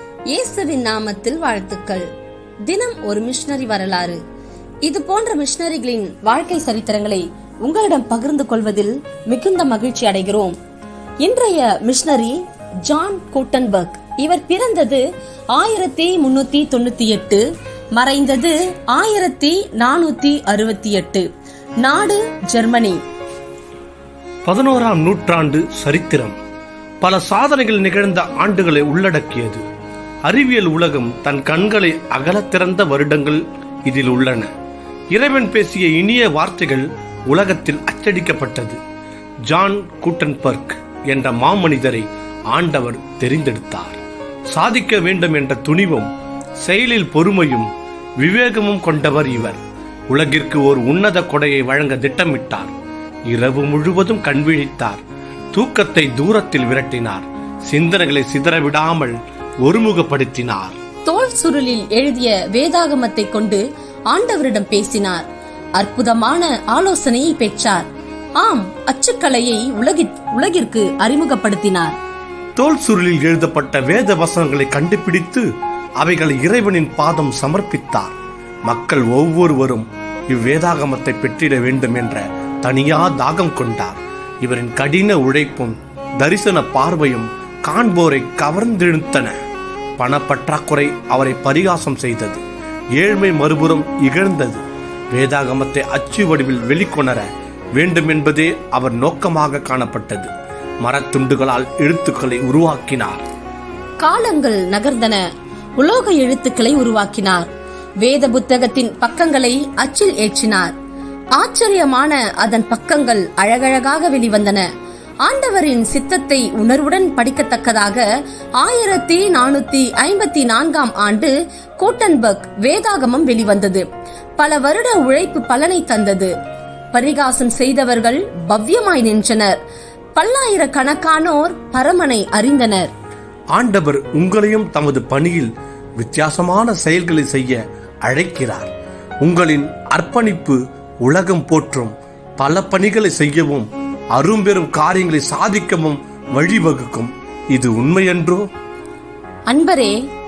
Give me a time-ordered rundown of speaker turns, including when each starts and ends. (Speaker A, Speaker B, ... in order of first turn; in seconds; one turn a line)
Speaker A: 0.3-2.1
Speaker A: 2.7-4.2
Speaker A: 4.8-10.6
Speaker A: 11.2-15.0
Speaker A: 15.5-17.4
Speaker A: 18.0-21.3
Speaker A: 21.8-23.0
Speaker B: 24.5-26.4
Speaker B: 27.0-29.6
Speaker B: 30.3-34.5
Speaker B: 35.1-38.8
Speaker B: 39.5-44.0
Speaker B: 44.5-46.1
Speaker B: 46.6-47.7
Speaker B: 48.2-52.7
Speaker B: 53.3-55.0
Speaker B: 55.5-60.8
Speaker A: 61.1-65.2
Speaker A: 65.8-72.0
Speaker B: 72.6-75.5
Speaker B: 76.0-78.2
Speaker B: 78.7-89.3
Speaker B: 90.0-92.4
Speaker B: 93.0-94.6
Speaker B: 95.1-97.3
Speaker B: 97.8-100.3
Speaker B: 100.8-103.2
Speaker A: 104.0-105.2
Speaker A: 105.8-107.5
Speaker A: 108.0-110.7
Speaker A: 111.4-114.7
Speaker A: 115.2-118.0
Speaker A: 118.6-123.8
Speaker A: 124.4-126.3
Speaker A: 126.9-129.6
Speaker A: 130.2-132.9
Speaker B: 133.6-138.7
Speaker B: 139.2-148.4
Speaker A: 149.5-150.0